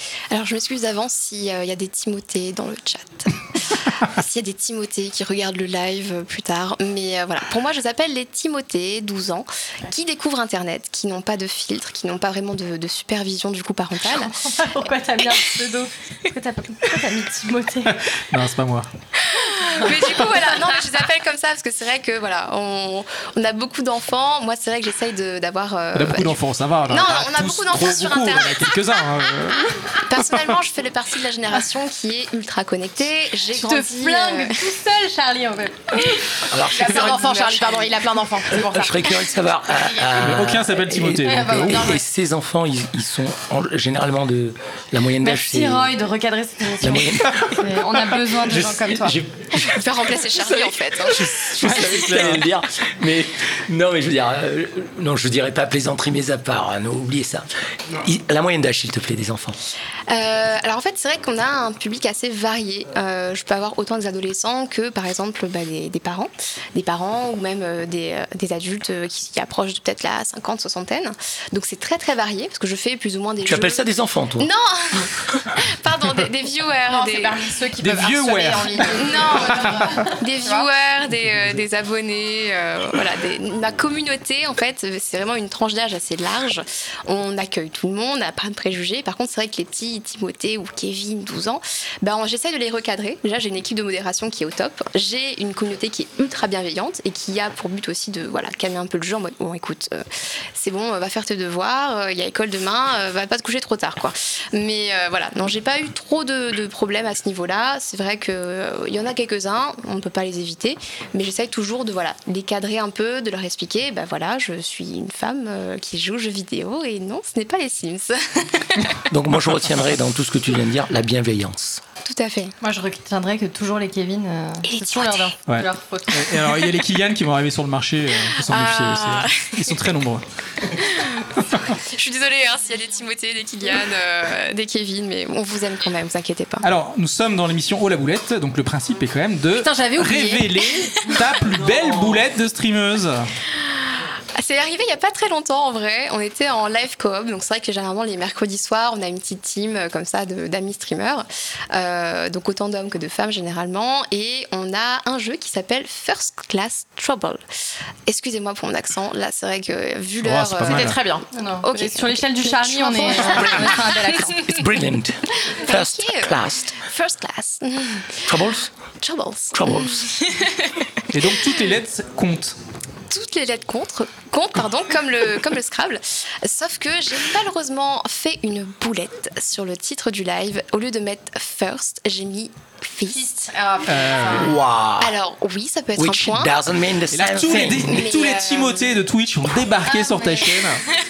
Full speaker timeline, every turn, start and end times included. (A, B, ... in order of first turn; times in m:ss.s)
0:00.3-0:14.4 A
0:14.4-0:18.0 B
0:17.9-0:18.9 C
0:19.3-0:29.3 A
0:25.9-0:30.2 C
0:30.0-0:34.7 A
0:33.5-0:36.2 B
0:36.4-0:37.9 D
0:36.6-0:39.1 E
0:38.5-0:46.0 D
0:40.1-0:41.9 C
0:41.3-0:41.9 B
0:41.5-0:42.0 E
0:45.2-0:49.2 B
0:46.8-0:49.8 D
0:49.5-0:51.4 A
0:50.4-0:59.6 D
0:51.2-0:52.4 C
1:00.1-1:17.5 A
1:13.4-1:14.5 D
1:16.9-1:20.7 E
1:17.8-1:19.0 C
1:18.9-1:58.8 A
1:19.6-1:19.9 C
1:59.1-2:01.8 D
2:02.0-2:02.5 A
2:02.6-2:06.4 B
2:04.6-2:05.3 A
2:05.5-2:10.2 C
2:08.4-2:09.7 A
2:10.7-2:16.7 A
2:16.6-2:23.3 C
2:19.7-2:20.4 B
2:24.4-2:37.4 A
2:38.1-2:41.0 A
2:40.2-2:41.0 C
2:40.7-2:41.2 E
2:41.3-2:44.4 B
2:41.6-2:44.4 A
2:44.4-2:46.8 D
2:45.5-2:48.4 A
2:48.3-2:48.7 D
2:49.0-2:50.1 A
2:49.5-2:50.4 D
2:51.1-2:52.6 C
2:53.1-3:03.5 A
3:03.3-3:04.5 E
3:03.8-3:04.5 C
3:04.4-3:05.1 D
3:05.0-3:06.6 A
3:06.0-3:08.0 D
3:07.1-3:10.8 C
3:07.8-3:09.0 A